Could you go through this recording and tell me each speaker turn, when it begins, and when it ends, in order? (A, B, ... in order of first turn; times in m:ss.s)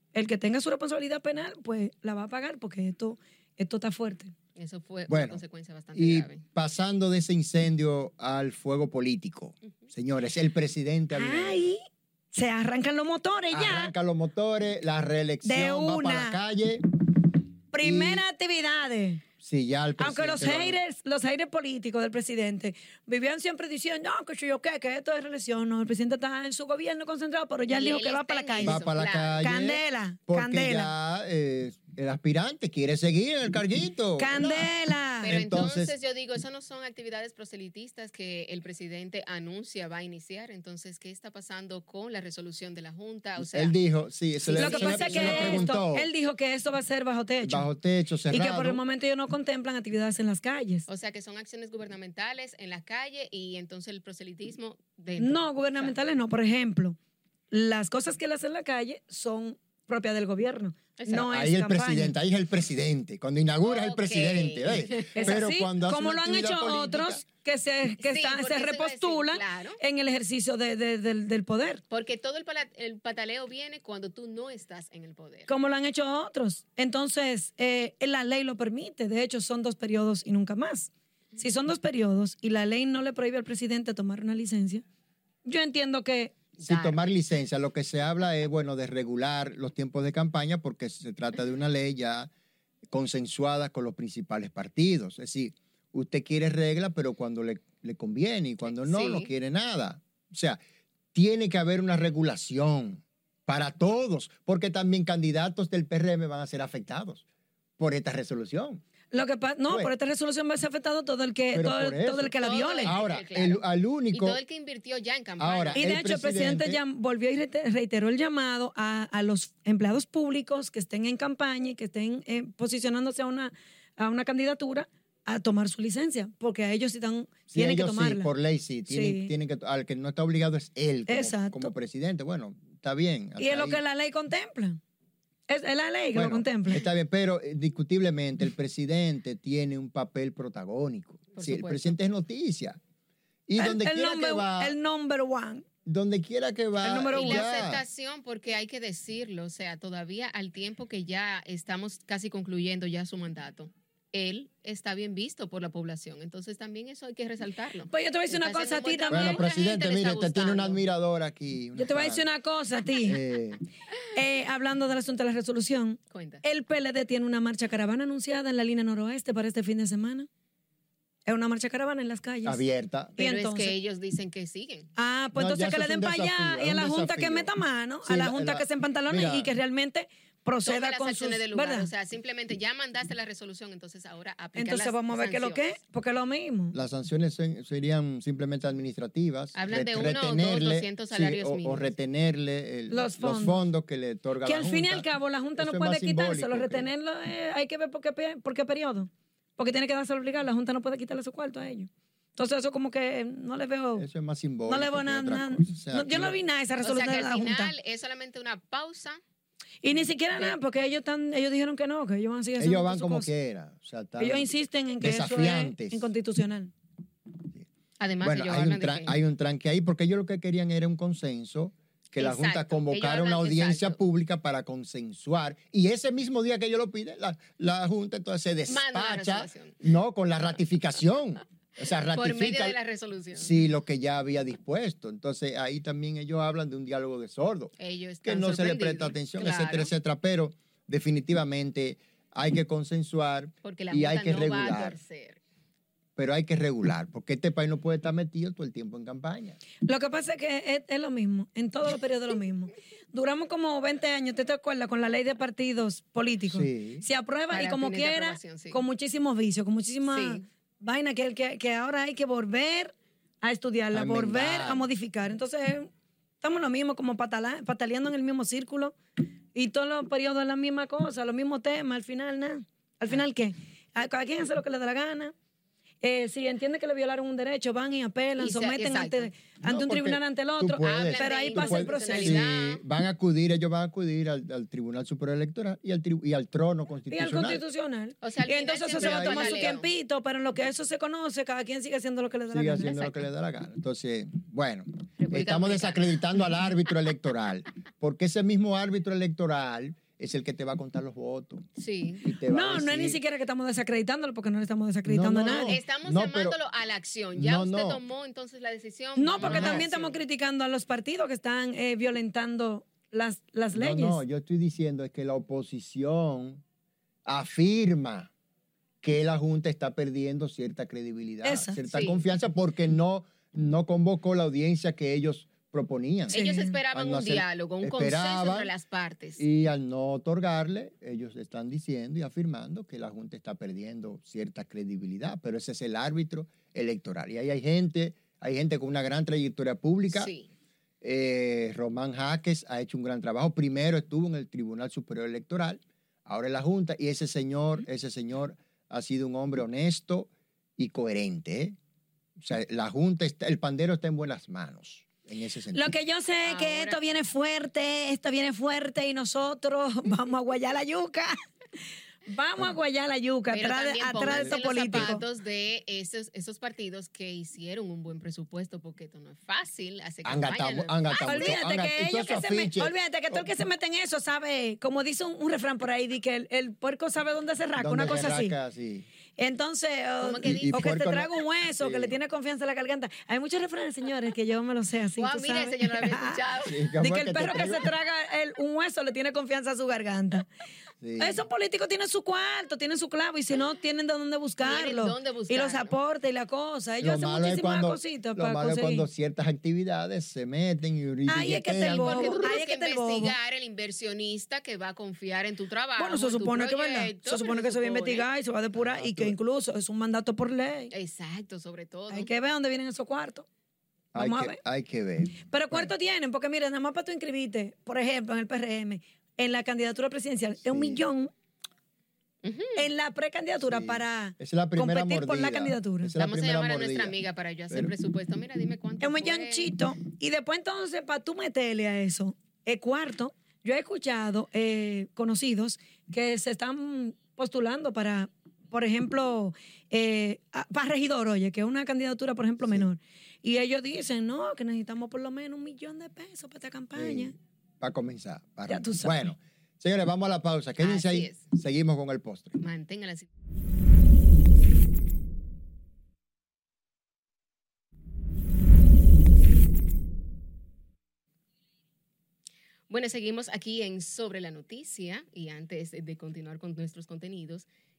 0:00.1-0:04.3 A
0:04.6-0:06.4 B
0:05.1-0:05.4 C
0:05.9-0:11.6 C
0:11.1-0:11.8 A
0:12.3-0:13.9 A
0:13.5-0:16.9 C
0:15.4-0:16.4 A
0:17.7-0:19.2 A
0:17.8-0:18.2 C
0:19.4-0:20.8 C
0:20.0-0:28.8 A
0:27.7-0:29.6 B
0:28.6-0:34.7 C
0:29.4-0:30.9 A
0:34.2-0:35.4 A
0:35.2-0:43.8 B
0:35.3-0:35.9 C
0:43.4-0:46.1 C
0:44.4-0:45.8 B
0:44.6-0:47.7 A
0:47.4-0:48.8 C
0:48.3-0:50.9 A
0:50.9-0:56.0 B
0:55.2-0:57.0 A
0:57.5-1:02.2 A
1:01.0-1:01.3 B
1:01.1-1:07.2 C
1:03.6-1:05.4 B
1:05.2-1:11.8 A
1:08.0-1:09.8 B
1:11.9-1:15.5 B
1:15.5-1:24.8 A
1:25.4-1:26.4 A
1:26.6-1:27.0 B
1:26.6-1:32.3 C
1:32.9-1:40.6 C
1:38.7-1:39.3 B
1:41.1-1:47.2 C
1:47.8-1:48.8 C
1:49.1-1:53.0 A
1:51.5-1:54.4 C
1:52.4-1:55.8 B
1:55.4-1:56.8 C
1:55.8-2:08.3 A
2:07.5-2:13.8 C
2:08.9-2:09.3 A
2:11.1-2:11.7 A
2:13.4-2:14.8 A
2:15.5-2:16.9 A
2:16.2-2:22.8 C
2:21.4-2:22.0 B
2:23.5-2:24.8 C
2:23.6-2:25.7 A
2:25.8-2:27.8 C
2:26.8-2:27.5 A
2:27.1-2:40.8 B
2:37.9-2:39.4 A
2:39.1-2:42.2 C
2:41.8-2:43.2 A
2:43.0-2:43.6 C
2:44.1-2:50.3 A
2:46.1-2:46.4 B
2:51.3-2:52.6 A
2:52.4-2:53.2 C
2:53.2-2:53.8 A
2:53.2-2:54.9 B
2:55.0-3:01.9 A
2:55.4-2:57.5 C
2:58.0-2:59.5 C
3:00.6-3:05.7 B
3:04.6-3:06.8 A
3:06.7-3:16.9 C
3:09.6-3:11.9 B
3:12.9-3:13.6 A
3:14.4-3:24.1 A
3:24.0-3:26.4 C
3:24.7-3:27.7 A
3:26.8-3:29.2 B
3:29.8-3:33.3 A
3:32.6-3:34.5 C
3:34.2-3:36.7 A
3:35.0-3:36.1 C
3:38.0-3:39.2 B
3:38.2-3:52.8 C
3:42.2-3:44.0 B
3:48.7-3:49.8 B
3:52.1-3:53.6 B
3:53.3-4:05.0 C
3:57.8-3:59.9 B
4:03.6-4:05.4 B
4:06.2-4:09.6 C
4:09.8-4:25.9 A
4:16.5-4:17.0 C
4:17.5-4:18.8 B
4:20.1-4:20.4 B
4:23.9-4:24.9 C
4:26.4-4:29.0 A
4:29.5-4:35.3 A
4:36.0-4:42.4 A
4:38.4-4:39.3 B
4:39.6-4:47.6 C
4:40.8-4:42.8 B
4:47.1-4:53.3 A
4:48.2-4:49.9 B
4:49.0-4:49.8 C
4:52.5-5:01.6 C
4:55.2-4:56.5 B
5:01.8-5:02.2 B
5:02.2-5:03.2 C
5:02.5-5:05.8 A
5:05.1-5:06.6 C
5:05.5-5:10.2 B
5:07.4-5:08.0 C
5:09.2-5:14.2 A
5:09.4-5:09.9 C
5:13.7-5:16.6 C
5:17.3-5:18.3 C
5:19.0-5:28.7 C
5:21.4-5:21.8 A
5:21.9-5:22.2 B
5:26.3-5:26.8 A
5:26.3-5:29.4 B
5:29.4-5:40.3 C
5:40.1-5:40.5 B
5:41.0-5:51.8 C
5:52.4-5:55.9 C
5:55.7-6:01.4 A
5:56.4-5:57.0 B
6:02.3-6:05.2 A
6:03.5-6:11.6 B
6:04.2-6:05.1 C
6:10.2-6:13.5 C
6:11.2-6:18.6 A
6:17.8-6:19.1 C
6:19.4-6:26.4 A
6:20.2-6:20.8 B
6:20.4-6:22.2 C
6:25.2-6:26.8 B
6:26.6-6:27.9 C
6:27.0-6:30.5 A
6:31.0-6:31.4 C
6:31.2-6:39.1 A
6:34.6-6:35.9 B
6:37.0-6:42.4 C
6:41.3-6:43.3 A
6:41.8-6:48.3 B
6:46.0-6:50.9 A
6:48.8-6:49.4 C
6:50.9-6:52.3 B
6:52.1-6:53.5 A
6:54.1-6:55.9 C
6:54.2-6:54.6 A
6:55.5-7:01.3 A
7:00.6-7:01.0 C
7:02.4-7:02.8 B
7:02.8-7:06.1 A
7:03.6-7:07.2 C
7:06.2-7:09.7 B
7:09.0-7:27.4 A
7:22.6-7:22.9 C
7:27.0-7:32.6 C
7:28.7-7:29.2 A
7:30.8-7:31.4 B
7:32.6-7:33.3 B
7:42.9-7:47.7 B